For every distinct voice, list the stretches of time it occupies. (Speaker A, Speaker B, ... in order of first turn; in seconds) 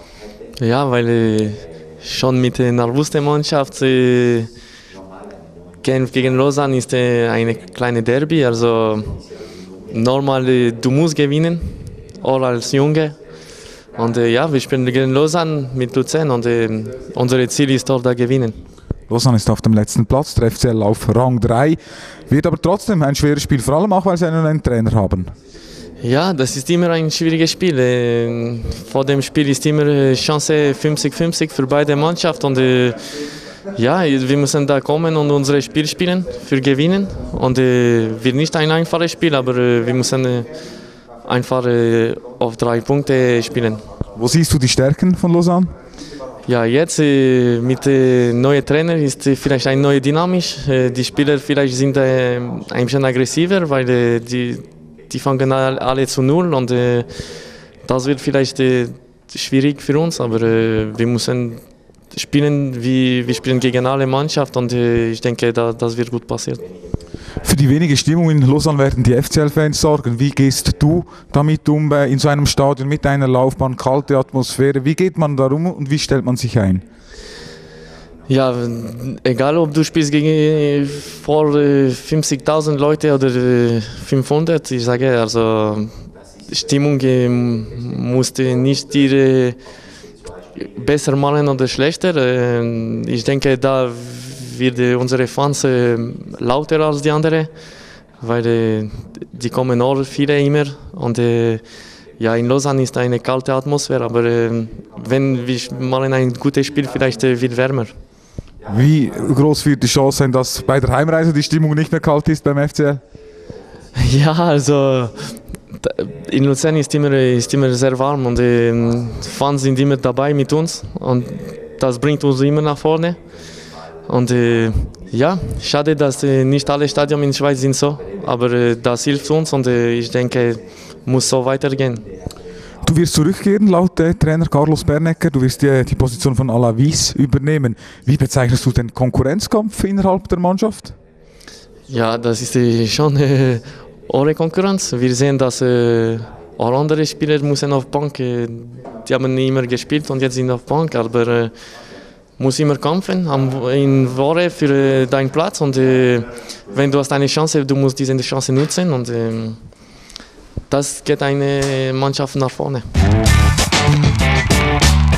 Speaker A: 0.6-4.5, 5.8-9.2, 9.9-13.2, 13.9-18.6, 26.0-33.1, 33.7-40.5, 41.2-43.8, 46.5-57.1, 57.8-66.7, 78.3-85.9, 86.5-89.6, 90.6-97.5, 98.2-101.6, 102.2-107.9, 113.9-123.2, 124.0-132.1, 141.9-151.5, 152.4-159.6, 160.7-162.9
Speaker B: 19.1-25.3, 44.1-45.7, 67.4-76.8, 108.7-113.0, 132.8-140.9